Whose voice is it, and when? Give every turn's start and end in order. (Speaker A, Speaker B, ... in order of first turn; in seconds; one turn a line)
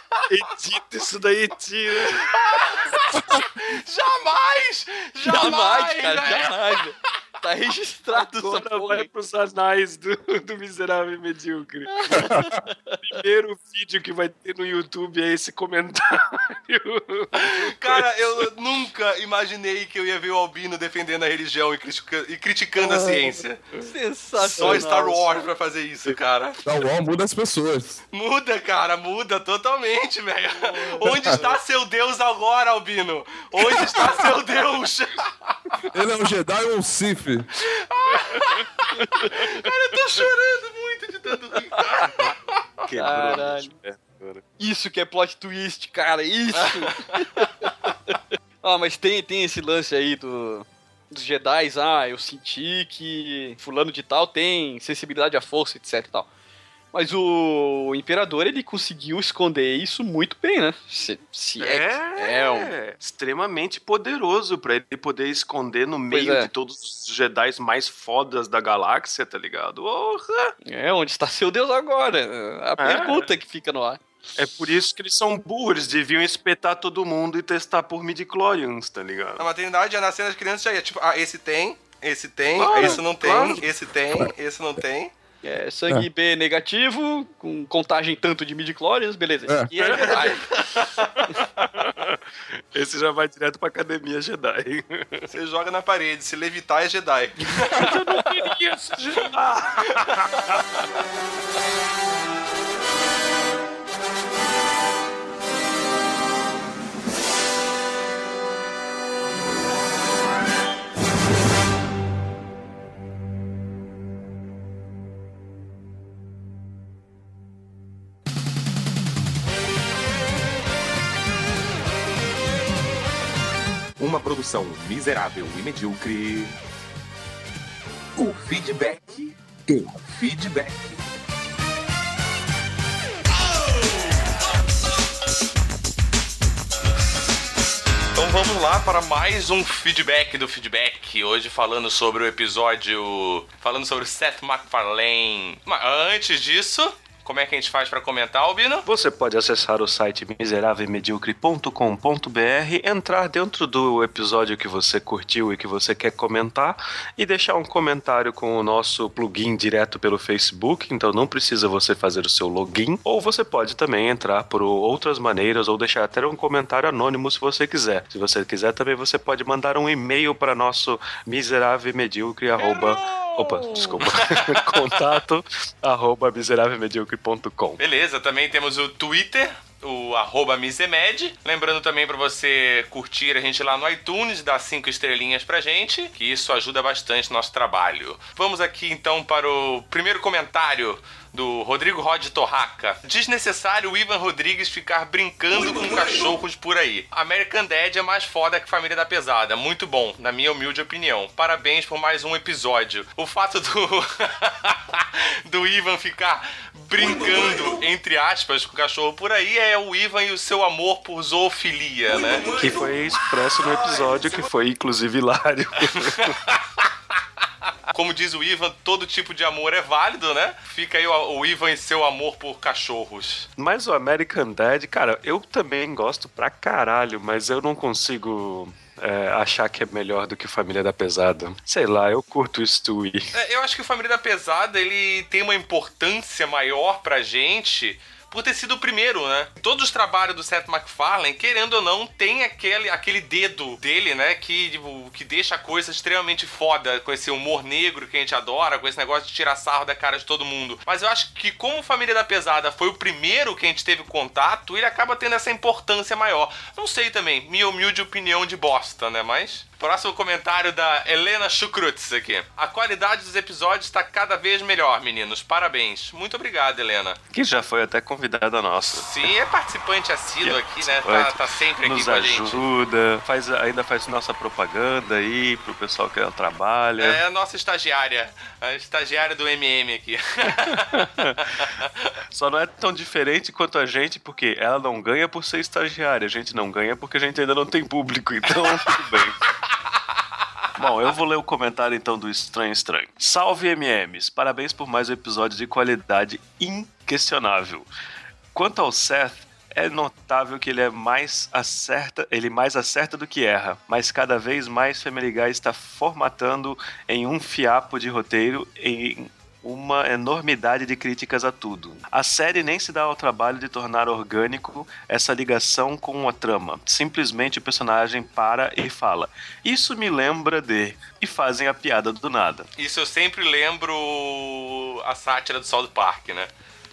Speaker A: 0.3-2.3
Speaker B: 2.1-6.6
Speaker C: 5.2-9.1
Speaker A: 8.1-12.4
Speaker C: 11.9-13.0
Speaker D: 12.3-12.6
Speaker A: 13.0-18.5
Speaker B: 17.4-23.6
Speaker A: 22.8-23.9
Speaker C: 23.9-25.4
Speaker B: 24.5-26.6
Speaker A: 24.6-24.9
Speaker D: 26.6-28.0
Speaker B: 28.1-35.5
Speaker A: 30.8-31.6
Speaker D: 31.1-31.4
Speaker D: 33.9-34.2
Speaker D: 35.9-37.5
Speaker B: 37.6-42.6
Speaker A: 38.1-38.5
Speaker A: 39.2-39.5
Speaker A: 42.8-44.4
Speaker C: 43.0-43.7
Speaker C: 44.6-56.3
Speaker C: 56.9-62.7
Speaker A: 61.6-70.5
Speaker C: 66.1-66.5
Speaker C: 70.7-74.0
Speaker A: 72.8-73.3
Speaker A: 74.4-79.5
Speaker B: 79.4-85.1
Speaker A: 82.6-83.7
Speaker C: 85.4-90.4
Speaker A: 89.8-90.4
Speaker B: 89.9-91.1
Speaker A: 91.0-95.3
Speaker B: 95.3-98.0
Speaker A: 97.5-100.6
Speaker E: 124.0-126.5
Speaker E: 128.2-131.0
Speaker B: 138.2-148.9
Speaker A: 148.9-177.8
Speaker B: 174.0-174.6
Speaker B: 177.8-212.6
Speaker A: 212.6-216.4
Speaker B: 215.9-216.8
Speaker B: 217.9-223.5
Speaker A: 223.6-233.3
Speaker B: 233.3-267.2
Speaker A: 267.3-269.1
Speaker B: 268.9-272.6
Speaker A: 270.4-277.2
Speaker B: 277.0-282.1
Speaker A: 280.7-281.4
Speaker A: 282.3-289.5
Speaker A: 290.8-297.9
Speaker A: 298.5-322.7
Speaker B: 322.8-326.5